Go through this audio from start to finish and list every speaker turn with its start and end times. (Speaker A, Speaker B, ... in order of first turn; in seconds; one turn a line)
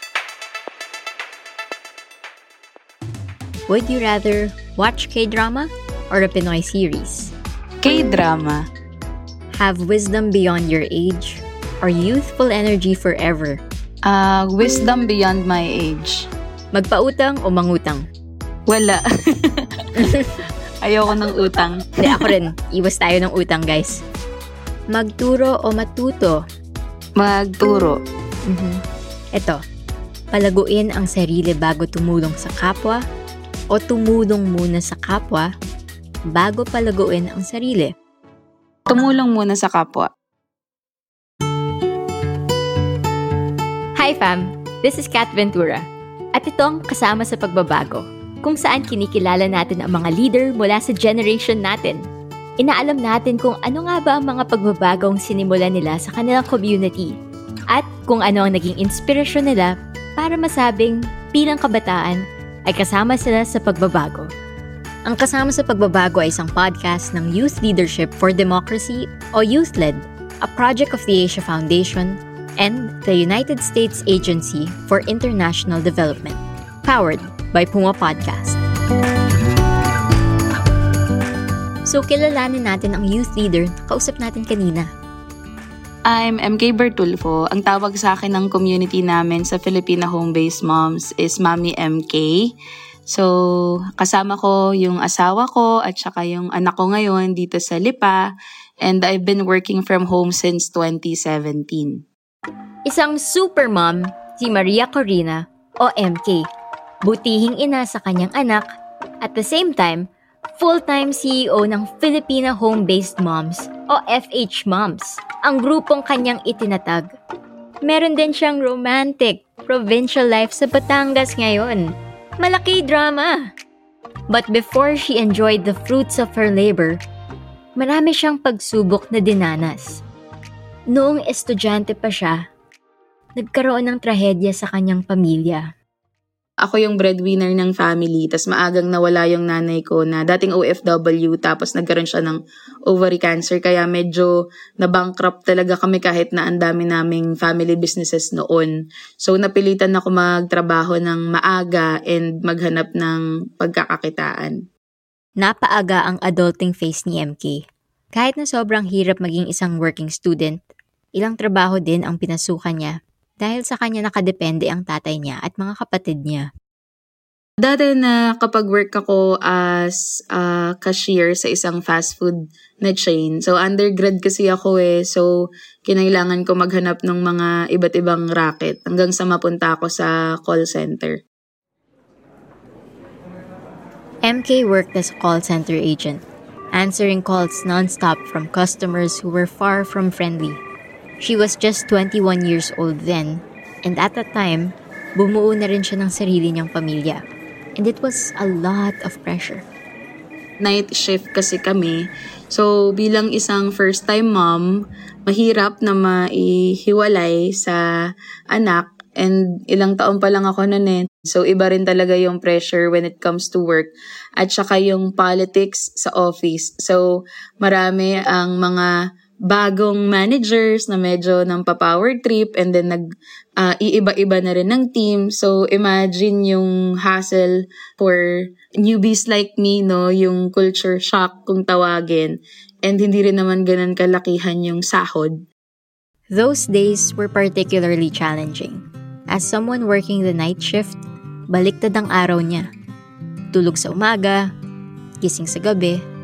Speaker A: 3.7-7.3
Speaker B: 7.8-8.6
Speaker A: 9.5-13.6
Speaker B: 14.1-16.2
Speaker A: 16.7-18.0
Speaker B: 18.7-19.6
Speaker A: 20.0-20.4
Speaker B: 20.8-22.3
Speaker A: 22.0-24.0
Speaker A: 24.9-26.4
Speaker B: 27.2-28.0
Speaker A: 28.5-28.8
Speaker A: 29.3-29.6
Speaker A: 30.3-33.0
Speaker A: 33.7-35.5
Speaker A: 36.3-37.9
Speaker B: 38.9-40.1
Speaker A: 44.0-45.8
Speaker A: 46.4-52.0
Speaker A: 52.6-57.1
Speaker A: 57.7-64.3
Speaker A: 65.0-78.6
Speaker A: 81.8-84.9
Speaker B: 86.1-92.5
Speaker B: 94.0-98.2
Speaker B: 98.8-102.0
Speaker A: 102.8-106.4
Speaker A: 107.0-108.7
Speaker A: 109.2-110.0
Speaker A: 110.6-117.1
Speaker A: 117.8-121.9
Speaker A: 122.4-123.5
Speaker A: 124.3-127.0
Speaker A: 127.8-130.0
Speaker A: 130.9-132.4
Speaker A: 133.4-135.7
Speaker B: 136.6-154.6
Speaker A: 155.4-157.6
Speaker A: 158.2-160.6
Speaker A: 161.2-166.4
Speaker B: 167.6-175.3
Speaker B: 175.9-181.2
Speaker A: 184.2-186.2
Speaker A: 186.7-190.6
Speaker A: 191.2-197.2
Speaker A: 197.8-199.6
Speaker B: 200.6-207.8
Speaker B: 208.5-217.0
Speaker B: 217.6-218.9
Speaker B: 219.5-223.0
Speaker B: 223.6-228.2
Speaker B: 228.8-235.4
Speaker A: 236.3-241.0
Speaker A: 241.5-242.7
Speaker A: 243.5-244.4
Speaker A: 245.2-246.0